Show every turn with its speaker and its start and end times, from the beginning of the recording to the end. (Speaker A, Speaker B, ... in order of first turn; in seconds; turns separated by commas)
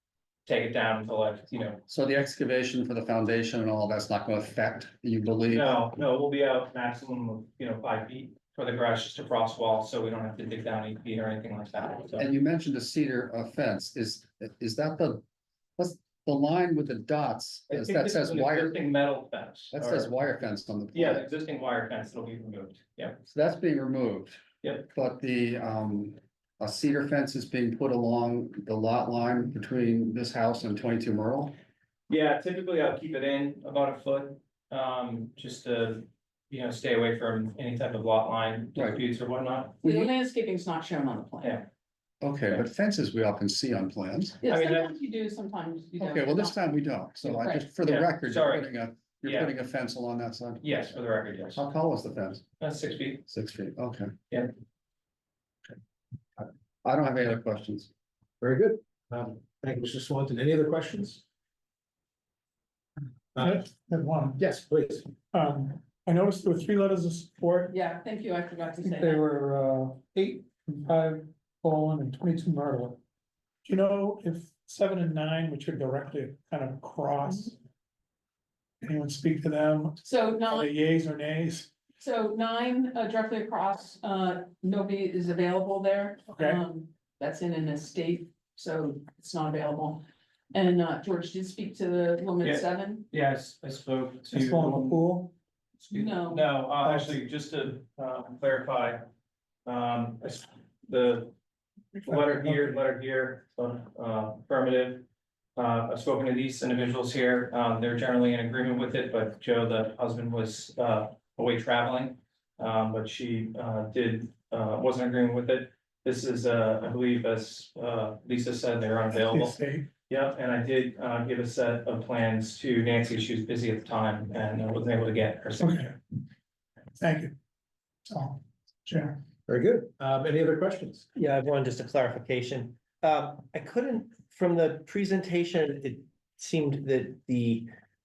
Speaker A: 0.5-1.8, Speaker B: 1.9-5.7, Speaker A: 5.5-12.3, Speaker B: 12.2-15.2, Speaker B: 15.8-18.8, Speaker A: 17.7-20.1, Speaker B: 19.7-21.2, Speaker A: 20.9-23.2, Speaker B: 23.2-24.4, Speaker B: 24.9-31.5, Speaker A: 32.1-39.8, Speaker B: 38.7-39.0, Speaker C: 39.8-41.6, Speaker B: 39.8-40.1, Speaker B: 42.2-44.4, Speaker C: 44.4-46.5, Speaker A: 44.5-44.9, Speaker B: 46.0-50.9, Speaker C: 47.2-47.7, Speaker A: 47.8-49.5, Speaker A: 50.6-51.6, Speaker B: 51.5-52.4, Speaker A: 52.6-53.2, Speaker B: 53.3-54.1, Speaker B: 56.4-57.9, Speaker D: 58.4-61.2, Speaker E: 63.4-64.4, Speaker D: 64.4-65.1, Speaker E: 65.3-67.7, Speaker C: 67.7-69.2, Speaker E: 68.8-73.0, Speaker E: 73.6-77.6, Speaker E: 78.8-81.7, Speaker C: 80.0-80.7, Speaker C: 82.0-93.0, Speaker E: 86.3-86.6, Speaker A: 92.4-95.1, Speaker E: 94.3-95.3, Speaker A: 95.8-99.0, Speaker C: 95.9-96.5, Speaker E: 96.8-97.2, Speaker A: 99.7-101.3, Speaker A: 102.0-105.0, Speaker E: 102.1-102.3, Speaker A: 105.6-119.6, Speaker E: 119.1-119.9, Speaker A: 120.1-125.9, Speaker E: 125.6-126.0, Speaker E: 127.0-127.3, Speaker E: 128.1-129.2, Speaker D: 129.5-131.0, Speaker F: 131.1-137.7